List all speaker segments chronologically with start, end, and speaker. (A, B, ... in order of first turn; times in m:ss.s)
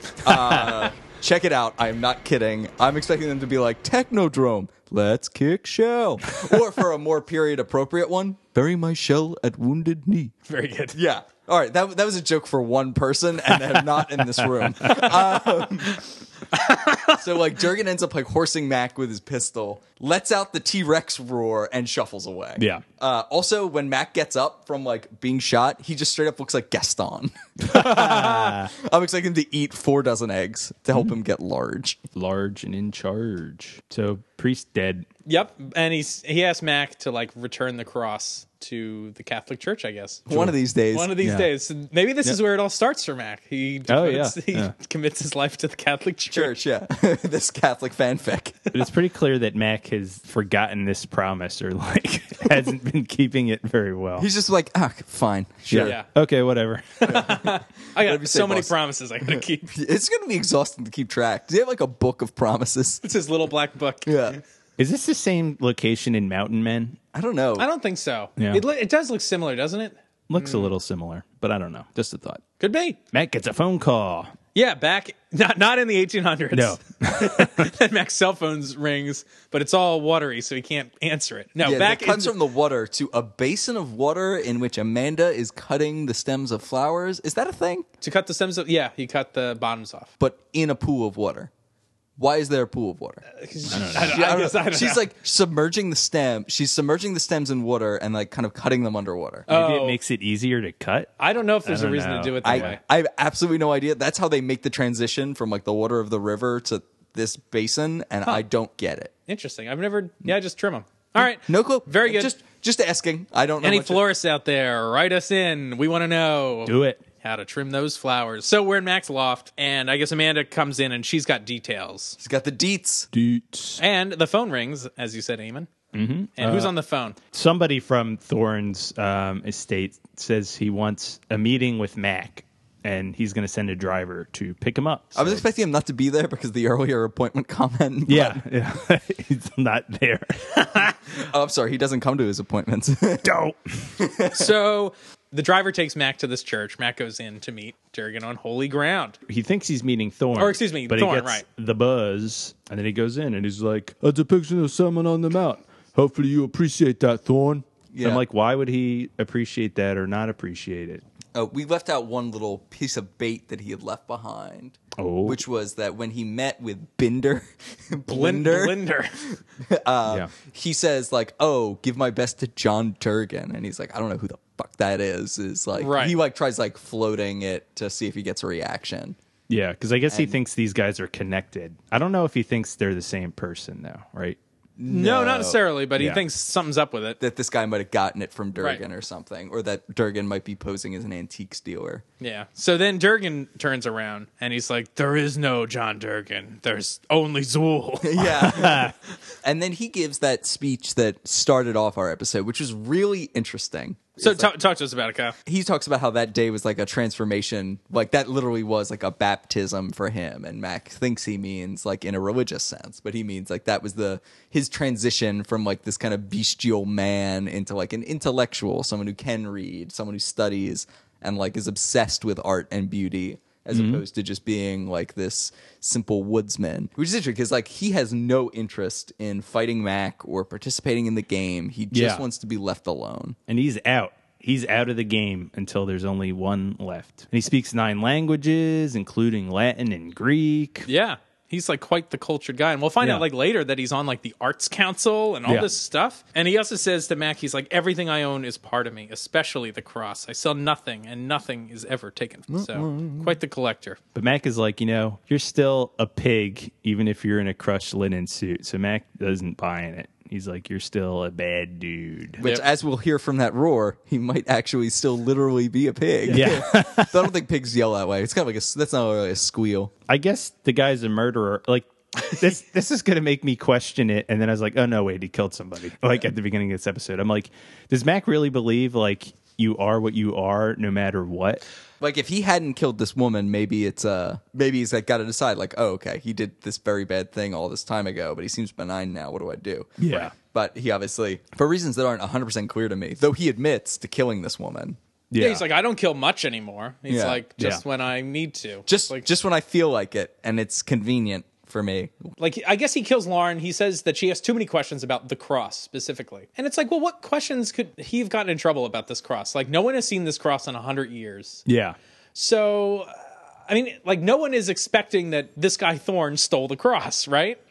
0:00.2-0:10.3 A
0:00.3-0:00.6 B
0:10.5-0:11.0 C
0:10.9-0:16.0 A
0:14.4-0:15.1 B
0:16.5-0:17.2 C
0:17.1-0:32.0 A
0:22.6-0:22.8 B
0:27.6-0:28.7 B
0:27.7-0:28.5 C
0:32.2-0:35.1 B
0:35.2-0:40.3 C
0:40.3-0:41.2 A
0:40.9-0:46.5 C
0:41.2-0:41.5 B
0:43.9-0:44.7 B
0:46.3-0:48.6 A
0:48.7-0:54.3 B
0:54.2-0:56.0 A
0:55.7-0:57.3 B
0:55.8-0:56.1 C
0:57.0-0:59.7 C
0:57.1-0:58.7 A
0:59.7-1:03.0 A
1:03.0-1:04.4 C
1:04.0-1:04.4 A
1:04.8-1:07.0 B
1:07.1-1:07.7 A
1:07.6-1:10.7 C
1:08.4-1:08.6 B
1:10.3-1:12.4 B
1:12.6-1:13.0 C
1:13.1-1:14.3 B
1:14.5-1:22.3 C
1:16.5-1:17.7 B
1:21.6-1:27.8 A
1:28.0-1:30.1 C
1:30.2-1:31.5 A
1:32.2-1:33.2 A
1:33.3-1:35.0 C
1:33.7-1:34.2 B
1:33.9-1:39.5 A
1:39.5-1:40.0 C
1:39.5-1:42.7 B
1:41.2-1:42.8 C
1:42.4-1:49.1 A
1:49.3-1:52.3 C
1:51.2-1:54.0 A
1:53.6-2:02.2 C
1:56.6-1:57.0 B
2:02.2-2:03.1 A
2:03.1-2:03.8 B
2:03.8-2:05.7 C
2:05.9-2:06.7 B
2:06.4-2:07.2 C
2:07.3-2:15.4 B
2:15.1-2:18.4 A
2:18.1-2:20.7 B
2:21.2-2:23.4 A
2:23.2-2:23.9 B
2:24.0-2:24.5 A
2:24.3-2:29.2 C
2:29.3-2:41.0 B
2:30.3-2:31.4 C
2:37.9-2:38.2 A
2:41.3-2:59.2 A
2:45.0-2:45.4 B
2:48.1-2:49.3 C
2:50.0-2:50.3 B
2:55.8-2:56.2 C
2:59.5-3:04.4 B
3:00.1-3:00.4 A
3:04.8-3:05.6 A
3:04.8-3:07.2 C
3:06.0-3:06.2 B
3:07.2-3:12.0 A
3:12.2-3:18.8 C
3:18.0-3:24.5 A
3:18.5-3:18.9 B
3:24.2-3:25.4 C
3:25.4-3:53.4 A
3:43.7-3:44.0 B
3:51.9-3:52.2 B
3:53.5-4:00.9 B
4:00.9-4:14.0 C
4:03.0-4:03.2 B
4:05.4-4:05.7 B
4:12.5-4:13.3 A
4:14.1-4:22.4 B
4:22.4-4:29.9 A
4:22.4-4:22.6 C
4:26.3-4:27.3 B
4:30.1-4:41.6 B
4:42.0-4:55.0 A
4:50.0-4:50.3 B
4:55.3-4:55.6 B
4:55.4-4:59.2 C
4:57.1-4:57.4 A
4:57.6-4:57.8 B
4:58.9-5:02.3 A
5:02.4-5:11.6 C
5:11.6-5:12.0 B
5:12.3-5:13.1 C
5:13.7-5:17.6 C